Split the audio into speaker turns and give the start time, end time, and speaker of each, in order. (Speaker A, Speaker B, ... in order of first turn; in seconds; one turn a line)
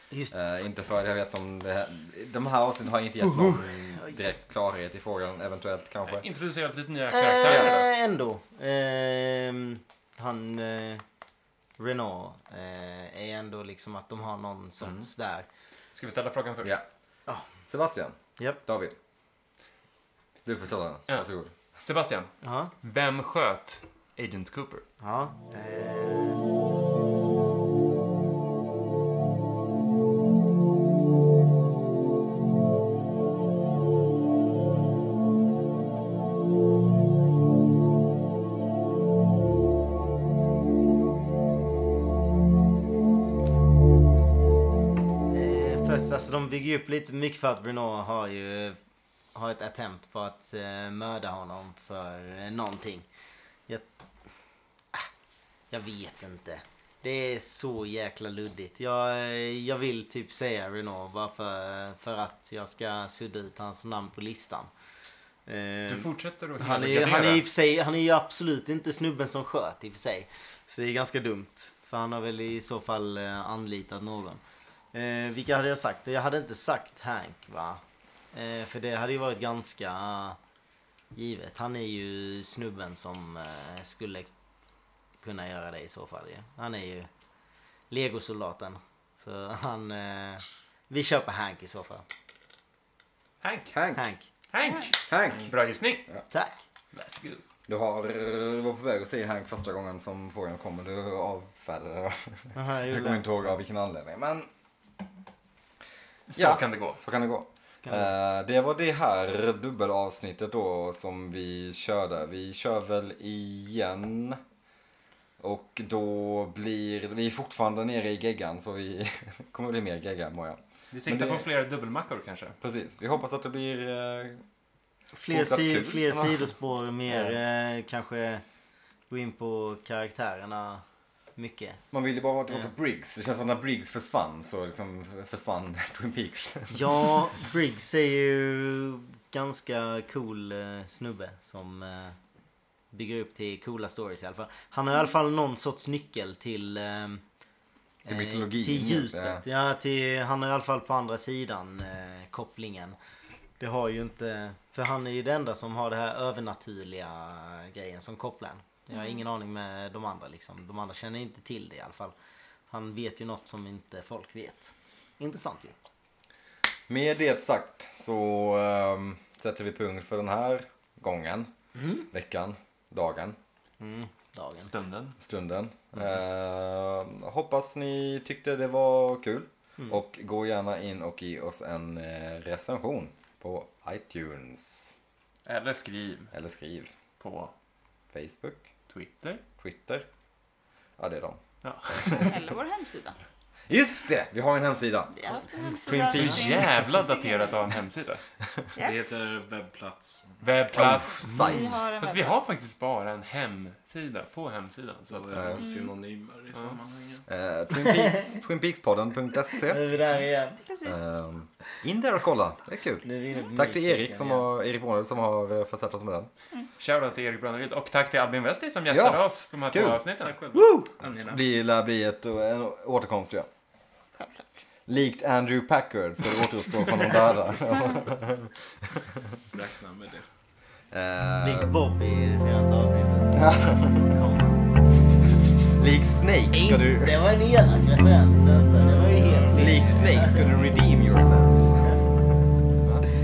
Speaker A: 0.3-6.2
Speaker B: 3.2-4.1
Speaker C: 6.0-7.9
Speaker B: 7.1-11.0
Speaker A: 7.4-7.8
Speaker B: 11.8-15.5
Speaker C: 15.9-16.8
Speaker A: 17.7-18.9
Speaker A: 20.4-21.5
Speaker C: 21.1-22.3
Speaker B: 22.4-22.7
Speaker C: 22.8-24.8
Speaker B: 25.0-26.4
Speaker B: 45.3-48.8
Speaker B: 49.3-53.1
Speaker B: 55.7-64.7
Speaker B: 65.5-74.4
Speaker C: 65.9-67.4
Speaker B: 74.9-77.8
Speaker B: 78.3-80.4
Speaker B: 81.1-84.3
Speaker B: 85.2-87.1
Speaker B: 87.9-92.0
Speaker C: 93.4-93.8
Speaker A: 93.7-94.0
Speaker B: 93.9-94.2
Speaker C: 94.5-96.0
Speaker A: 95.0-95.5
Speaker C: 96.9-97.4
Speaker A: 97.7-104.5
Speaker B: 102.5-103.2
Speaker C: 106.3-107.0
Speaker A: 106.3-114.4
Speaker B: 107.8-108.1
Speaker A: 115.4-121.5
Speaker C: 120.9-122.6
Speaker A: 122.6-124.4
Speaker B: 125.1-128.4
Speaker A: 125.3-126.5
Speaker A: 127.1-127.4
Speaker B: 129.1-130.8
Speaker B: 131.3-131.8
Speaker A: 131.9-137.3
Speaker B: 136.7-142.2
Speaker B: 142.9-147.2
Speaker B: 148.0-153.0
Speaker A: 148.1-149.4
Speaker B: 153.6-162.1
Speaker D: 158.9-159.2
Speaker B: 162.7-165.7
Speaker A: 166.9-171.5
Speaker B: 171.8-172.1
Speaker A: 172.0-173.3
Speaker B: 173.8-174.7
Speaker C: 174.6-175.2
Speaker A: 175.2-184.9
Speaker C: 185.4-186.3
Speaker A: 186.3-186.9
Speaker C: 187.2-187.5
Speaker A: 188.1-188.6
Speaker C: 188.9-189.4
Speaker A: 189.6-190.1
Speaker A: 191.0-192.3
Speaker C: 191.6-192.2
Speaker D: 192.2-193.2
Speaker A: 193.7-195.2
Speaker D: 195.1-197.6
Speaker A: 195.7-196.6
Speaker C: 195.9-198.2
Speaker E: 198.8-200.4
Speaker C: 200.4-205.6
Speaker A: 200.7-201.8
Speaker D: 201.4-202.4
Speaker E: 205.1-207.2
Speaker A: 205.3-205.7
Speaker D: 205.6-205.8
Speaker A: 207.3-209.8
Speaker B: 207.7-208.3
Speaker B: 209.5-210.6
Speaker D: 210.6-211.1
Speaker A: 210.8-216.3
Speaker B: 213.0-214.4
Speaker C: 216.8-220.4
Speaker A: 218.9-220.0
Speaker E: 220.2-221.4
Speaker B: 220.5-220.9
Speaker A: 221.1-223.5
Speaker D: 224.2-224.4
Speaker A: 224.9-228.5
Speaker E: 229.5-230.3
Speaker A: 230.9-231.7
Speaker B: 231.4-234.6
Speaker A: 233.3-234.1
Speaker A: 235.8-237.2
Speaker B: 236.5-240.6
Speaker E: 239.1-239.4
Speaker A: 239.5-241.8